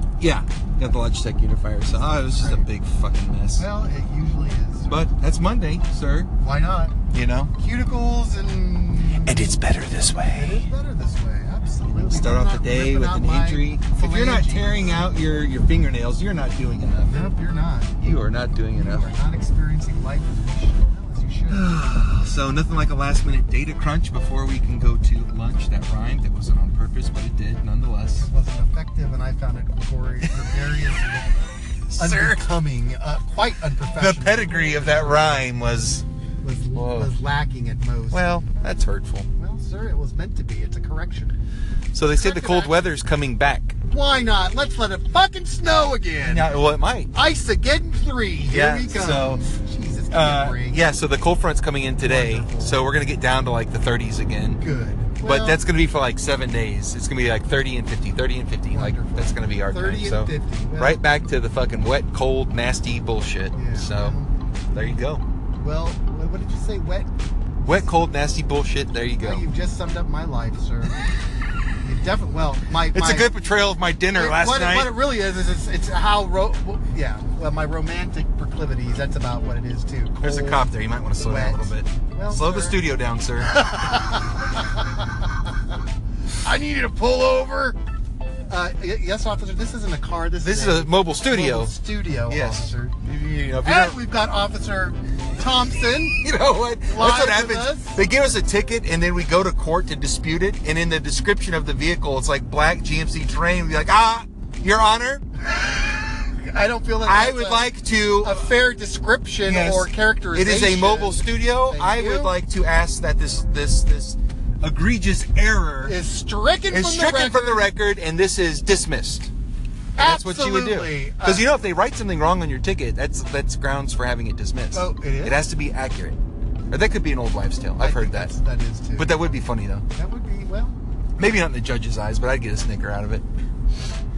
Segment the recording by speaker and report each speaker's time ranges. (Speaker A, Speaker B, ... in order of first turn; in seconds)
Speaker A: 0.2-3.6, 4.9-6.3, 7.1-7.5, 9.2-10.7, 11.9-17.2, 18.0-19.1, 21.5-28.3, 31.9-32.4, 34.0-36.0, 36.7-37.1, 38.1-39.3, 41.9-43.8, 46.2-47.1, 48.5-49.4, 50.1-54.6, 55.2-64.1, 64.7-65.2, 67.6-69.4, 72.9-75.0, 80.2-83.5, 90.4-91.7, 92.3-94.0, 96.2-105.2, 107.0-108.5, 109.4-116.0, 116.7-119.3, 120.0-126.2, 126.7-128.3, 128.9-129.8, 131.2-133.2
Speaker B: 2.4-2.6, 3.5-5.1, 6.4-7.0, 7.6-9.5, 10.3-15.0, 17.0-17.9, 18.7-21.8, 28.1-35.5, 36.4-38.2, 39.4-41.3, 42.1-42.8, 43.8-46.5, 47.1-50.8, 52.0-52.8, 54.6-55.6, 58.7-61.0, 63.5-65.0, 65.6-67.1, 67.6-67.9, 69.2-71.0, 71.8-73.3, 74.1-80.7, 81.2-82.8, 83.4-85.3, 86.4-87.8, 88.5-92.9, 93.6-96.2, 96.8-98.0, 105.5-107.7, 108.2-112.3, 115.8-117.7, 120.0-121.5, 124.7-125.4, 127.8-129.2, 129.9-130.8